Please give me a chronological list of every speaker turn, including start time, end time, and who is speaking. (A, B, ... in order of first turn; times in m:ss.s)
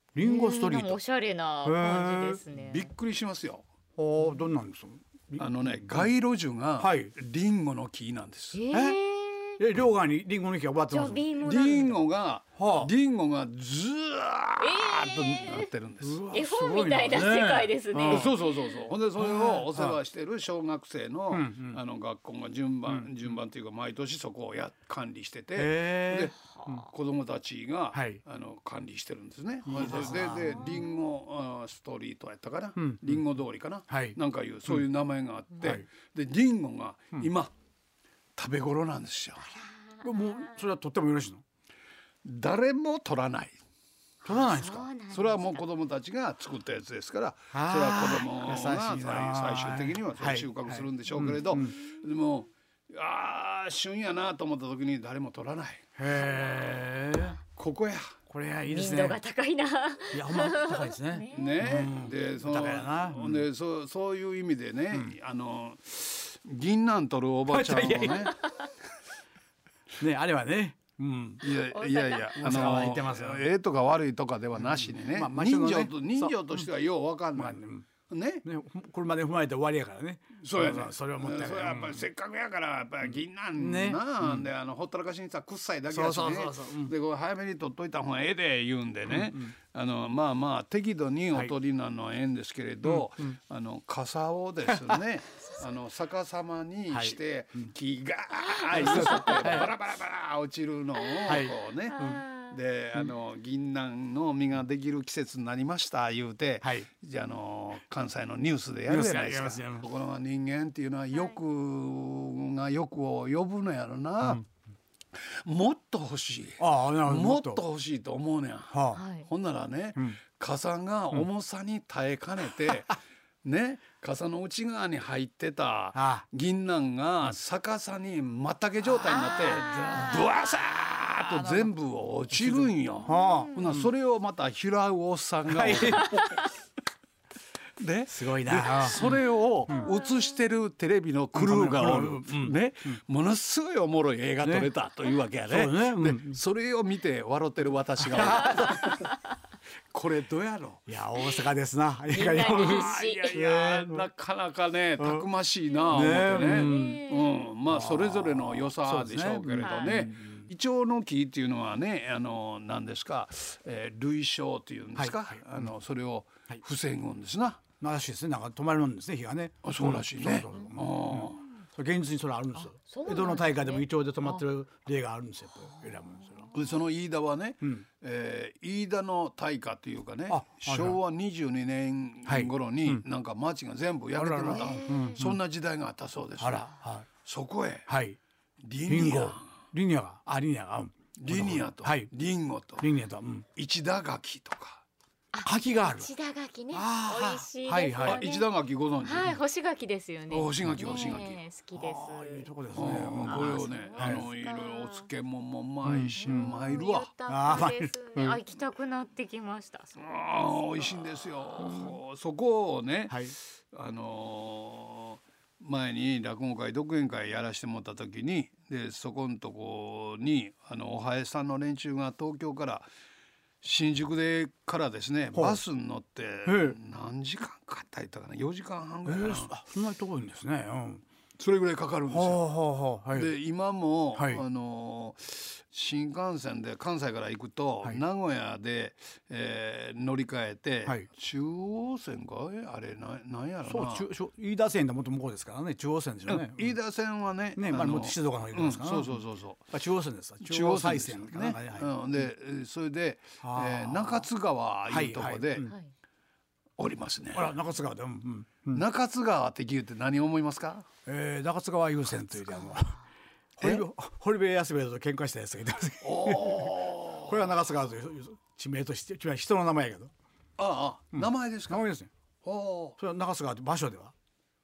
0:00.1-0:01.0 A
0:00.2-0:02.9 B
0:01.6-0:02.4 A
0:02.5-0:03.6 C
0:04.0-0:06.1 A
0:05.4-0:08.6 C
0:06.8-0:07.1 A
0:08.5-0:09.6 B
0:08.7-0:09.0 A
0:09.6-0:11.3 A
0:10.9-0:12.0 B
0:11.3-0:16.3 C
0:12.6-0:12.9 A
0:14.6-0:15.7 B
0:16.0-0:18.4 A
0:16.3-0:18.4 B
0:18.0-0:37.5 C
0:19.2-0:20.0 A
0:21.3-0:21.8 A
0:22.9-0:23.1 A
0:25.6-0:26.9 A
0:27.9-0:28.2 A
0:29.6-0:30.9 A
0:32.8-0:33.3 A
0:33.9-0:34.9 A
0:35.6-0:35.9 A
0:38.4-0:39.5 C
0:40.0-0:41.4 A
0:42.2-0:43.6 C
0:44.2-0:44.9 A
0:44.2-0:45.6 B
0:45.1-0:55.9 C
0:47.5-0:51.8 A
0:56.0-0:57.4 A
0:57.6-0:58.2 C
0:58.3-0:59.2 A
0:58.7-1:01.7 B
1:00.1-1:03.5 A
1:01.3-1:08.4 C
1:07.5-1:08.3 A
1:10.0-1:11.4 A
1:11.4-1:18.5 C
1:11.5-1:12.4 B
1:12.4-1:13.5 A
1:14.6-1:16.7 A
1:17.3-1:17.9 A
1:18.4-1:22.1 A
1:20.4-1:54.4 C
1:23.0-1:24.5 A
1:25.9-1:26.9 A
1:29.1-1:29.5 A
1:32.8-1:33.4 A
1:34.7-1:35.0 A
1:36.9-1:37.7 A
1:38.7-1:39.7 A
1:41.2-1:42.2 A
1:42.0-1:42.5 B
1:48.9-1:49.9 A
1:55.3-2:16.5 C
1:56.6-1:57.6 A
1:58.7-1:59.0 A
1:58.9-1:59.3 B
2:05.9-2:06.2 A
2:08.9-2:10.3 A
2:09.2-2:10.3 B
2:11.2-2:11.7 A
2:12.3-2:13.9 A
2:15.5-2:16.5 A
2:17.8-2:29.0 C
2:18.1-2:19.2 A
2:21.3-2:22.6 A
2:24.4-2:24.7 A
2:25.5-2:26.4 A
2:28.0-2:28.9 A
2:29.9-2:30.9 C
2:30.9-2:34.1 A
2:32.1-2:33.4 B
2:32.5-2:47.6 C
2:35.0-2:35.3 A
2:35.9-2:37.1 A
2:36.4-2:37.5 B
2:37.7-2:40.5 A
2:39.6-2:40.0 B
2:45.0-2:45.7 A
2:47.8-2:56.5 A
2:49.6-2:51.4 C
2:52.6-2:54.4 B
2:56.5-3:06.7 C
3:00.3-3:01.0 A
3:02.2-3:03.0 A
3:04.2-3:05.4 A
3:06.4-3:07.1 A
3:07.2-3:07.9 C
3:07.9-3:08.2 A
3:08.6-3:09.6 C
3:08.9-3:12.1 A
3:11.2-3:12.9 C
3:12.8-3:13.5 A
3:13.5-3:14.8 C
3:15.4-3:18.5 B
3:15.4-3:16.1 A
3:16.7-3:18.2 A
3:18.0-3:19.4 C
3:19.0-3:22.5 B
3:20.3-3:21.4 C
3:21.7-3:24.3 A
3:22.7-3:27.1 C
3:23.2-3:25.1 B
3:25.8-3:26.8 A
3:26.2-3:31.0 B
3:27.3-3:28.4 A
3:30.0-3:42.9 C
3:31.6-3:32.0 A
3:33.1-3:33.4 A
3:43.6-3:49.5 C
3:45.3-3:45.6 A
3:46.4-3:46.8 A
3:49.0-3:51.0 A
3:51.4-3:52.5 C
3:52.1-3:53.3 A
3:53.1-4:04.1 C
3:54.2-3:54.4 A
4:03.6-4:06.8 A
4:06.3-4:09.7 C
4:07.6-4:12.2 A
4:10.4-4:15.6 C
4:13.4-4:14.3 A
4:14.9-4:15.7 A
4:15.6-4:15.9 B
4:16.8-4:17.6 C
4:17.3-4:18.8 A
4:18.7-4:20.9 C
4:21.1-4:23.0 A
4:23.6-4:30.1 A
4:26.0-4:27.6 C
4:30.6-4:31.8 C
4:31.1-4:32.1 A
4:32.4-4:33.0 C
4:33.0-4:34.1 A